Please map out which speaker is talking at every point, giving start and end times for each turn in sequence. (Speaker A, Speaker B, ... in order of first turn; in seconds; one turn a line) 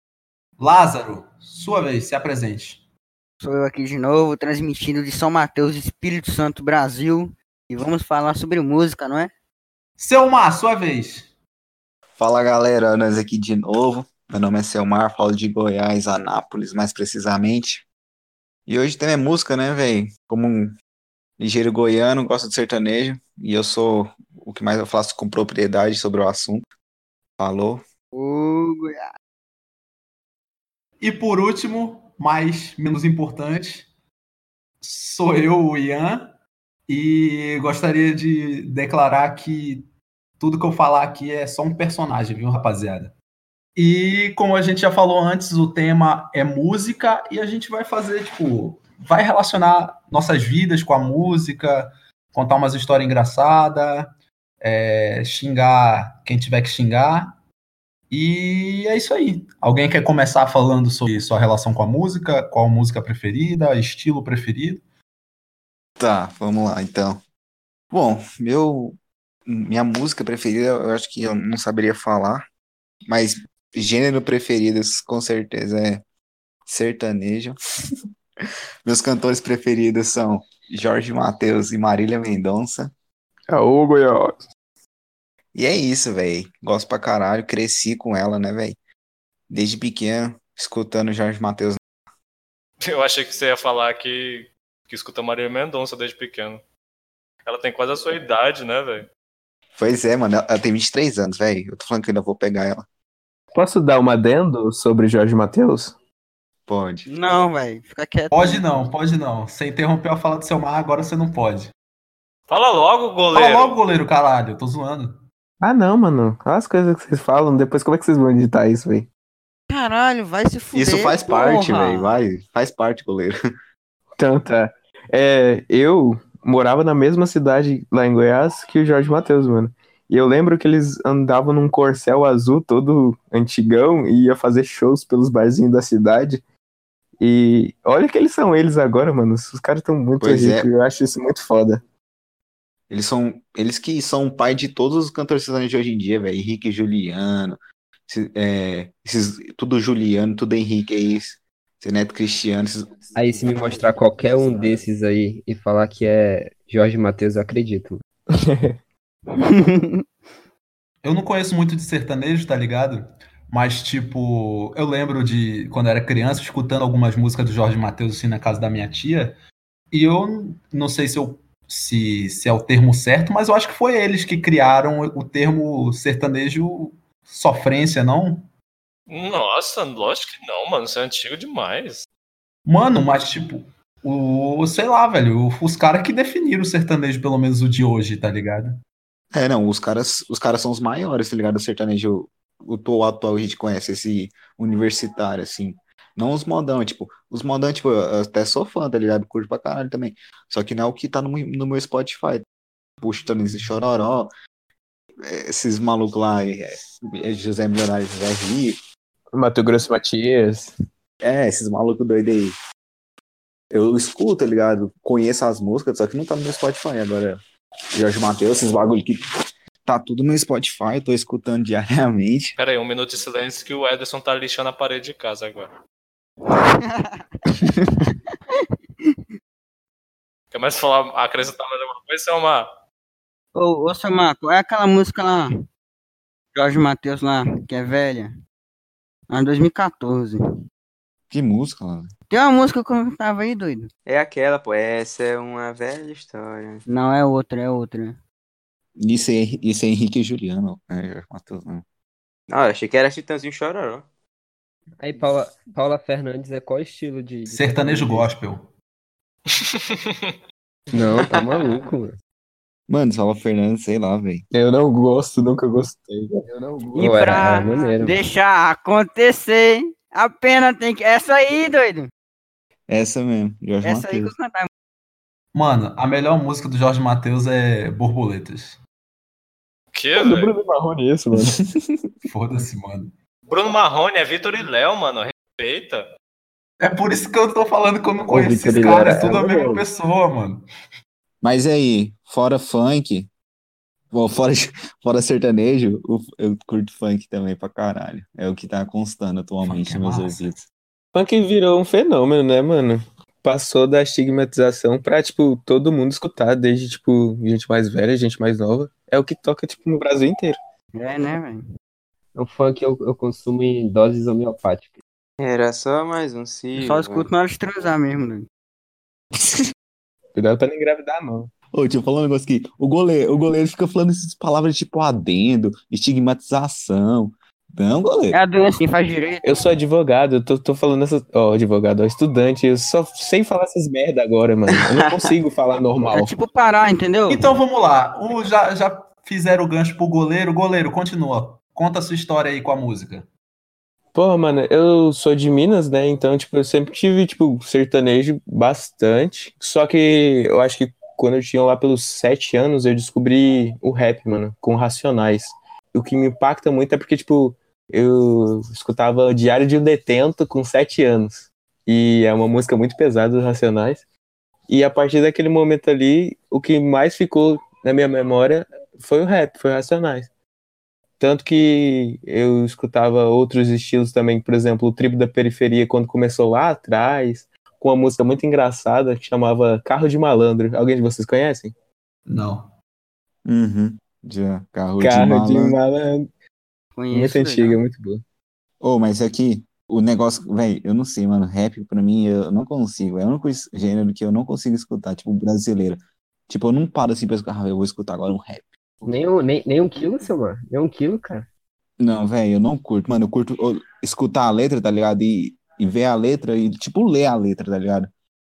Speaker A: 0.6-2.8
Speaker B: 3.4-9.3
Speaker A: 10.0-11.3
Speaker C: 12.2-17.9
Speaker C: 18.7-20.7
Speaker C: 21.4-26.7
Speaker C: 27.4-27.8
Speaker B: 28.1-29.0
Speaker A: 31.0-33.9
Speaker A: 34.8-36.4
Speaker A: 36.9-39.9
Speaker A: 40.4-43.1
Speaker A: 43.8-57.4
Speaker A: 58.1-64.8
Speaker C: 66.0-67.2
Speaker C: 67.9-69.0
Speaker C: 69.5-72.4
Speaker C: 73.1-76.0
Speaker C: 76.7-77.5
Speaker C: 78.8-82.9
Speaker D: 83.5-84.4
Speaker C: 85.5-88.8
Speaker C: 89.5-91.8
Speaker E: 92.8-96.6
Speaker E: 97.5-99.1
Speaker C: 99.7-102.8
Speaker D: 103.5-105.9
Speaker C: 106.7-107.1
Speaker B: 107.0-108.9
Speaker A: 108.3-111.7
Speaker E: 112.5-113.8
Speaker A: 113.3-115.2
Speaker D: 115.6-119.1
Speaker B: 119.7-122.1
Speaker C: 120.7-123.3
Speaker D: 124.2-136.4
Speaker D: 137.2-141.8
Speaker C: 140.2-140.7
Speaker C: 142.9-154.8
Speaker F: 153.1-158.0
Speaker D: 158.3-158.8
Speaker B: 159.3-160.0
Speaker A: 161.0-169.4
Speaker A: 169.9-178.5
Speaker E: 179.1-182.1
Speaker A: 182.7-188.8
Speaker C: 189.3-202.4
Speaker C: 203.0-204.3
Speaker C: 205.2-208.8
Speaker D: 209.3-210.7
Speaker C: 211.2-212.5
Speaker C: 213.7-217.4
Speaker C: 217.9-219.2
Speaker C: 219.8-222.6
Speaker E: 222.6-225.7
Speaker B: 226.5-227.5
Speaker B: 228.0-229.2
Speaker E: 230.5-232.7
Speaker B: 233.5-235.5
Speaker B: 236.5-238.3
Speaker B: 239.3-240.4
Speaker C: 241.3-242.1
Speaker B: 242.3-243.9
Speaker G: 244.1-246.8
Speaker B: 246.9-248.2
Speaker C: 249.0-251.8
Speaker G: 252.5-254.1
Speaker F: 255.0-258.3
Speaker A: 257.5-258.7
Speaker E: 259.5-260.3
Speaker F: 260.9-262.1
Speaker C: 262.9-264.4
Speaker D: 264.5-266.4
Speaker F: 266.4-268.1
Speaker B: 267.0-272.1
Speaker C: 272.9-274.3
Speaker B: 273.8-274.7
Speaker A: 275.5-278.8
Speaker E: 279.9-280.5
Speaker D: 280.1-281.6
Speaker A: 282.3-283.1
Speaker E: 283.5-286.0
Speaker A: 286.8-290.6
Speaker F: 288.2-289.8
Speaker C: 291.4-293.3
Speaker C: 294.1-300.7
Speaker A: 299.6-300.5
Speaker D: 301.1-310.6
Speaker B: 310.9-311.6
Speaker F: 312.4-315.0
Speaker G: 315.4-317.3
Speaker B: 316.8-318.5
Speaker D: 320.4-321.5
Speaker C: 321.7-328.4
Speaker B: 328.3-329.7
Speaker D: 329.4-336.3
Speaker B: 336.1-337.5
Speaker A: 337.3-343.2
Speaker D: 344.1-364.0
Speaker D: 364.7-370.3
Speaker D: 371.2-381.7
Speaker A: 382.2-382.7
Speaker C: 383.4-385.8
Speaker D: 385.0-386.3
Speaker B: 386.9-387.8
Speaker D: 387.1-388.2
Speaker C: 388.8-398.7
Speaker F: 399.0-401.5
Speaker C: 402.0-408.1